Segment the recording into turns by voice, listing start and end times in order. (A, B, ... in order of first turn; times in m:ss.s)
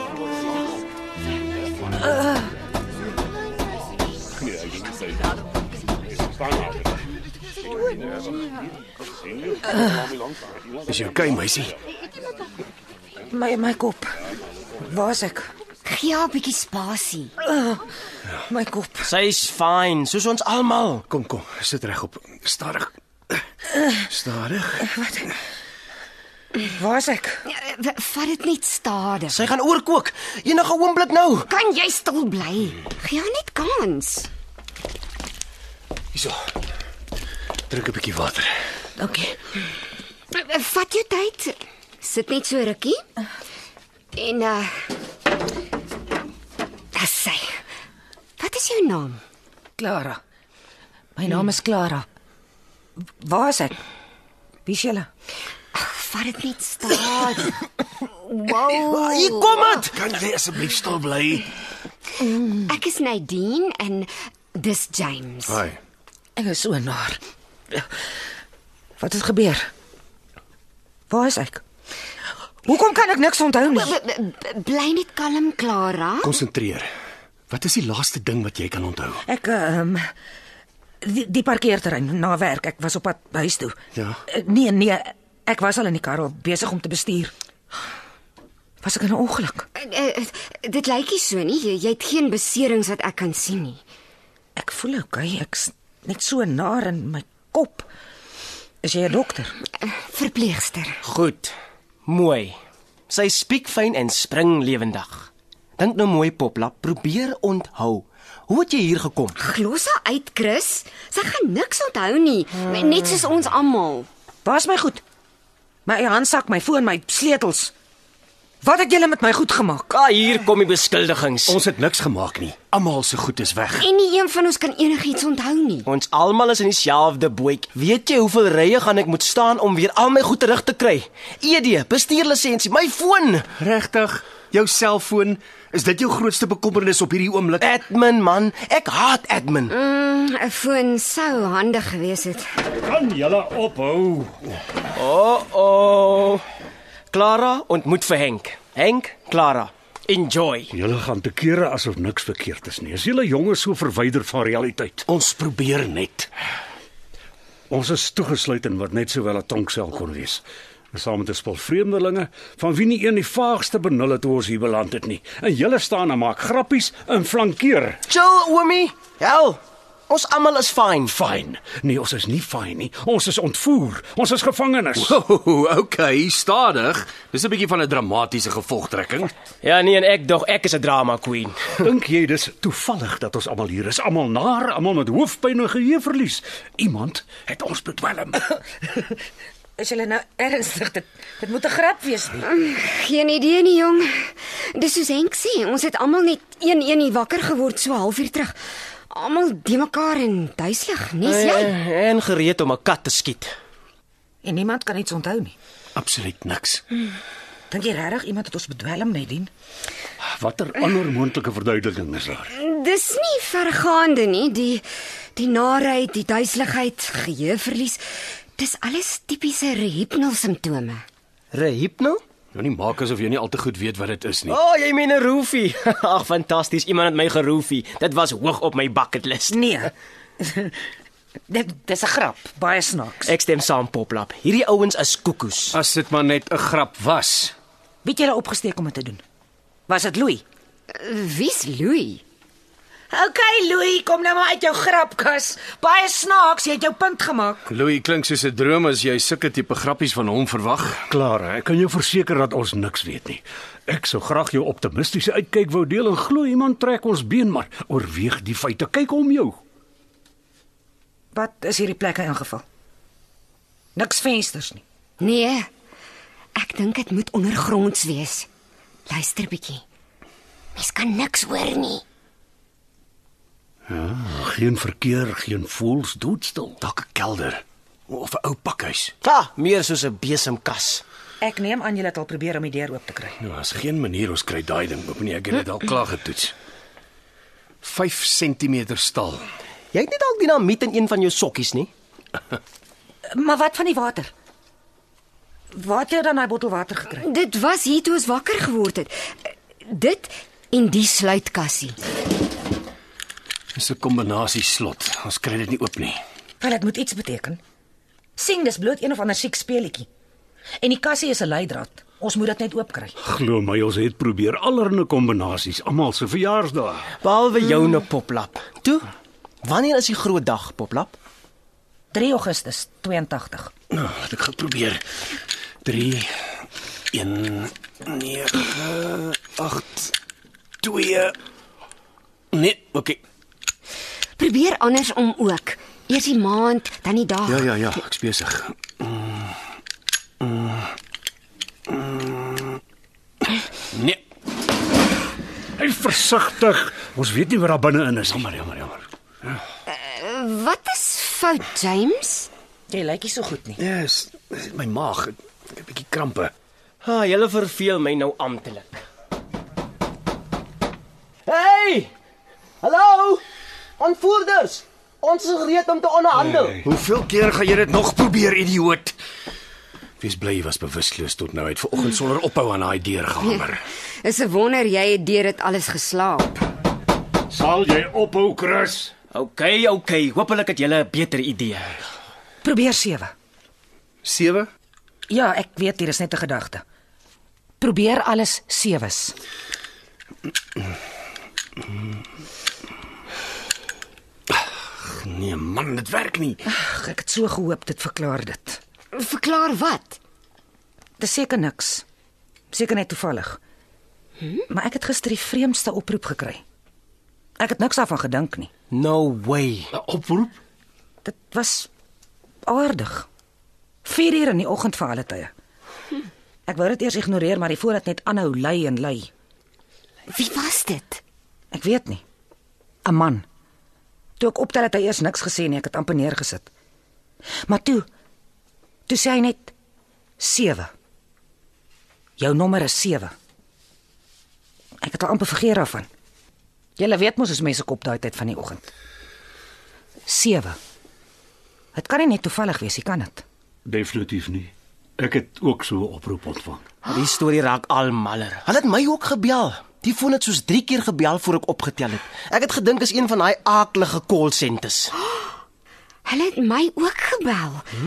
0:10.9-0:11.7 A
0:13.3-0:14.1 B
0:14.8-0:15.5 B
0:15.8-0:17.3 C
0:17.4-0:17.8 B
0:18.5-0:19.1 B
0:19.0-0:21.0 D
0:21.1-0:23.3 A
0:24.1-0:24.9 A
0:24.8-0:25.3 B
0:26.6-0:27.4 B
0:27.5-0:29.4 C
0:29.3-0:31.5 D
0:31.5-0:34.3 C
0:37.7-0:38.5 A
0:39.0-0:39.4 B
0:40.3-0:43.0 C
0:44.1-0:44.8 C
0:46.9-0:47.6 C
0:48.4-0:49.2 C
0:49.8-0:50.2 B
0:51.2-0:52.0 B
0:53.2-0:53.8 B
0:54.6-0:55.1 B
0:55.7-0:57.6 C
0:58.2-0:59.8 C
0:58.7-1:00.0 D
0:59.9-1:01.5 A
1:02.2-1:02.6 B
1:02.7-1:05.6 C
1:05.5-1:05.8 A
1:06.4-1:07.2 B
1:09.0-1:09.7 B
1:11.1-1:11.6 B
1:12.6-1:14.0 B
1:13.7-1:16.3 C
1:16.2-1:16.9 A
1:17.5-1:19.2 A
1:19.2-1:20.1 B
1:21.0-1:27.3 B
1:28.8-1:29.7 B
1:29.8-1:33.8 C
1:34.6-1:37.9 B
1:38.8-1:39.6 B
1:39.8-1:41.0 C
1:41.0-1:41.5 D
1:42.0-1:42.6 D
1:43.1-1:49.4 D
1:49.4-1:54.1 C
1:54.4-1:55.0 B
1:55.8-1:57.7 B
1:58.6-1:59.9 B
1:59.9-2:01.6 D
2:01.5-2:03.9 A
2:03.8-2:05.9 C
2:05.8-2:13.5 D
2:13.6-2:17.7 A
2:17.6-2:19.7 D
2:19.7-2:22.5 C
2:22.8-2:24.4 E
2:24.9-2:26.4 D
2:27.1-2:30.7 D
2:30.7-2:35.1 E
2:35.1-2:36.3 A
2:37.7-2:48.0 E
2:48.1-2:51.1 D
2:51.1-2:55.2 E
2:55.0-2:59.3 A
2:59.6-3:01.8 D
3:01.8-3:08.4 E
3:09.8-3:12.4 B
3:12.4-3:18.6 C
3:19.1-3:21.7 C
3:21.2-3:23.5 D
3:24.4-3:25.5 B
3:25.9-3:26.8 A
3:27.7-3:29.5 B
3:30.2-3:32.5 E
3:32.5-3:34.8 C
3:35.4-3:38.0 C
3:38.6-3:41.0 C
3:41.5-3:42.2 D
3:42.5-3:44.6 A
3:44.5-3:49.6 D
3:49.5-3:50.7 B
3:51.5-3:53.3 B
3:53.3-3:55.8 D
3:55.7-3:57.5 A
3:58.0-3:59.2 B
3:59.9-4:00.4 B
4:00.9-4:02.2 C
4:03.1-4:07.6 B
4:07.7-4:11.0 A
4:11.1-4:19.6 E
4:21.3-4:22.6 B
4:24.0-4:24.8 B
4:25.2-4:25.7 C
4:26.5-4:28.5 C
4:29.1-4:29.8 C
4:30.8-4:32.0 C
4:33.9-4:36.8 E
4:36.8-4:39.1 A
4:39.2-4:41.0 D
4:41.4-4:43.4 B
4:43.4-4:46.5 A
4:47.8-4:49.4 A
4:49.9-4:51.9 D
4:53.3-4:54.3 B
4:55.7-4:57.3 B
4:57.2-4:59.1 C
4:59.8-5:02.0 C
5:03.7-5:06.2 A
5:06.6-5:07.6 B
5:08.4-5:10.1 B
5:10.8-5:13.2 B
5:13.2-5:17.1 E
5:17.2-5:19.1 D
5:19.6-5:21.1 D
5:22.1-5:23.7 B
5:23.9-5:25.0 A
5:25.8-5:26.3 A
5:27.1-5:30.1 A
5:30.8-5:31.3 A
5:32.5-5:33.2 A
5:34.4-5:37.7 C
5:37.4-5:39.5 A
5:40.4-5:40.9 A
5:41.9-5:42.8 A
5:43.9-5:44.2 A
5:45.8-5:48.4 E
5:48.3-5:49.0 A
5:49.9-5:52.5 C
5:52.9-5:53.8 B
5:53.8-5:56.5 A
5:57.0-5:59.0 D
6:01.5-6:02.1 D
6:02.8-6:03.4 D
6:04.0-6:06.8 D
6:06.8-6:09.2 A
6:10.2-6:13.8 A
6:14.2-6:16.6 C
6:17.5-6:19.1 E
6:19.3-6:22.0 D
6:22.6-6:23.3 B
6:24.2-6:24.7 A
6:25.3-6:26.8 B
6:27.8-6:29.3 B
6:34.5-6:36.6 A
6:36.6-6:38.8 B
6:39.1-6:40.2 C
6:41.2-6:42.0 B
6:42.7-6:43.6 B
6:44.7-6:46.6 B
6:47.6-6:48.7 B
6:48.9-6:49.9 D
6:49.9-6:50.5 E
6:51.2-6:51.9 B
6:52.6-6:53.3 B
6:54.0-6:55.5 B
6:56.7-6:59.3 B
7:00.3-7:01.2 C
7:01.7-7:02.2 B
7:03.0-7:03.4 B
7:04.4-7:06.7 B
7:07.6-7:08.1 B
7:09.1-7:09.7 B
7:10.4-7:10.9 B
7:12.4-7:13.3 B
7:15.0-7:16.1 B
7:17.0-7:18.9 B
7:20.3-7:20.8 B
7:21.9-7:23.4 B
7:23.8-7:26.9 E
7:27.0-7:35.1 D
7:36.2-7:37.9 C